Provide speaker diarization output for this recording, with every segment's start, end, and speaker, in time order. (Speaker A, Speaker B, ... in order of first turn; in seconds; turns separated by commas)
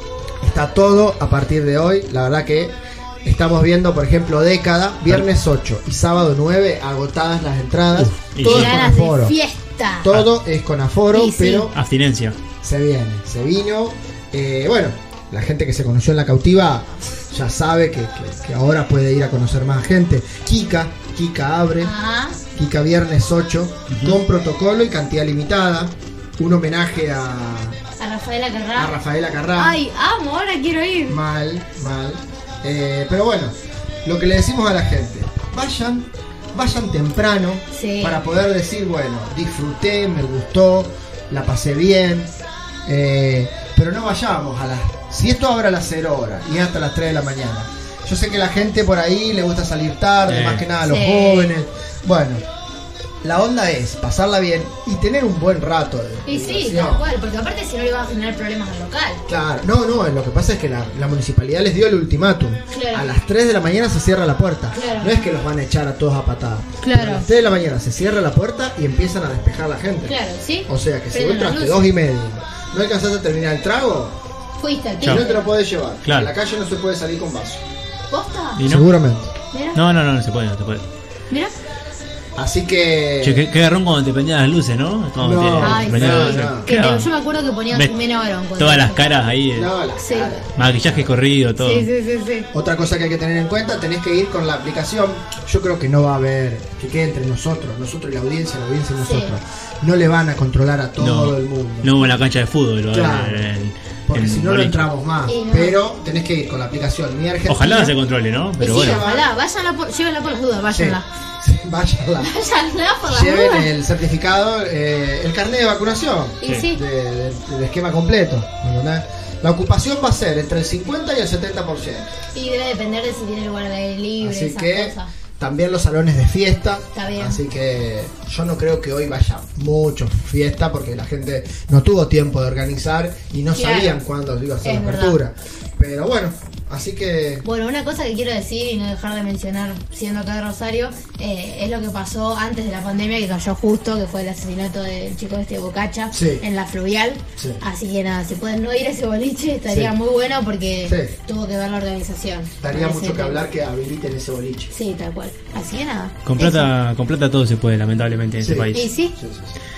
Speaker A: 0.4-9.4, Speaker B: 7.9-8.8, Speaker C: 8.4-10.1, Speaker A: 10.0-11.8, Speaker C: 11.1-11.7, Speaker B: 11.7-12.4, Speaker A: 12.6-21.9, Speaker C: 21.8-22.4, Speaker A: 22.6-27.8, Speaker B: 23.9-24.2, Speaker C: 28.0-28.9, Speaker A: 28.8-29.8, Speaker C: 29.6-31.2, Speaker A: 31.1-42.3, Speaker C: 37.7-38.2, Speaker A: 42.9-52.4, Speaker B: 50.3-50.6, Speaker C: 50.8-51.5, Speaker A: 53.2-57.0, Speaker C: 56.2-59.2, Speaker A: 59.3-74.2, Speaker C: 62.7-63.1, Speaker C: 64.7-65.2, Speaker C: 66.8-67.3, Speaker C: 70.0-71.9, Speaker C: 74.6-75.4, Speaker A: 75.0-77.6, Speaker B: 76.0-76.3, Speaker C: 78.1-78.6, Speaker B: 78.6-78.9, Speaker A: 78.6-79.3, Speaker C: 79.5-79.8, Speaker B: 79.7-80.8, Speaker C: 81.3-81.6, Speaker A: 82.4-83.5, Speaker B: 83.2-87.1, Speaker A: 85.2-86.7, Speaker C: 85.6-89.0, Speaker B: 88.6-89.7, Speaker A: 89.5-91.1, Speaker C: 90.0-90.3, Speaker B: 90.5-91.9, Speaker C: 91.6-92.5, Speaker A: 92.5-101.9, Speaker C: 99.0-99.3, Speaker B: 101.0-104.9, Speaker A: 102.9-103.5, Speaker A: 104.1-108.0, Speaker C: 105.3-105.8, Speaker B: 107.5-109.0, Speaker A: 108.6-109.2, Speaker C: 108.6-111.1, Speaker A: 110.7-112.3, Speaker C: 112.2-113.7, Speaker A: 113.0-122.1, Speaker C: 116.4-116.8, Speaker C: 122.3-125.1, Speaker A: 124.2-137.5, Speaker C: 126.9-127.4, Speaker C: 133.5-134.0, Speaker C: 134.6-135.2, Speaker C: 137.4-153.4, Speaker A: 146.1-146.4, Speaker A: 147.4-147.6, Speaker A: 149.7-149.9, Speaker A: 150.8-151.1, Speaker A: 152.6-154.7, Speaker C: 154.7-156.7, Speaker B: 156.3-158.9, Speaker A: 158.4-159.6, Speaker C: 158.7-159.2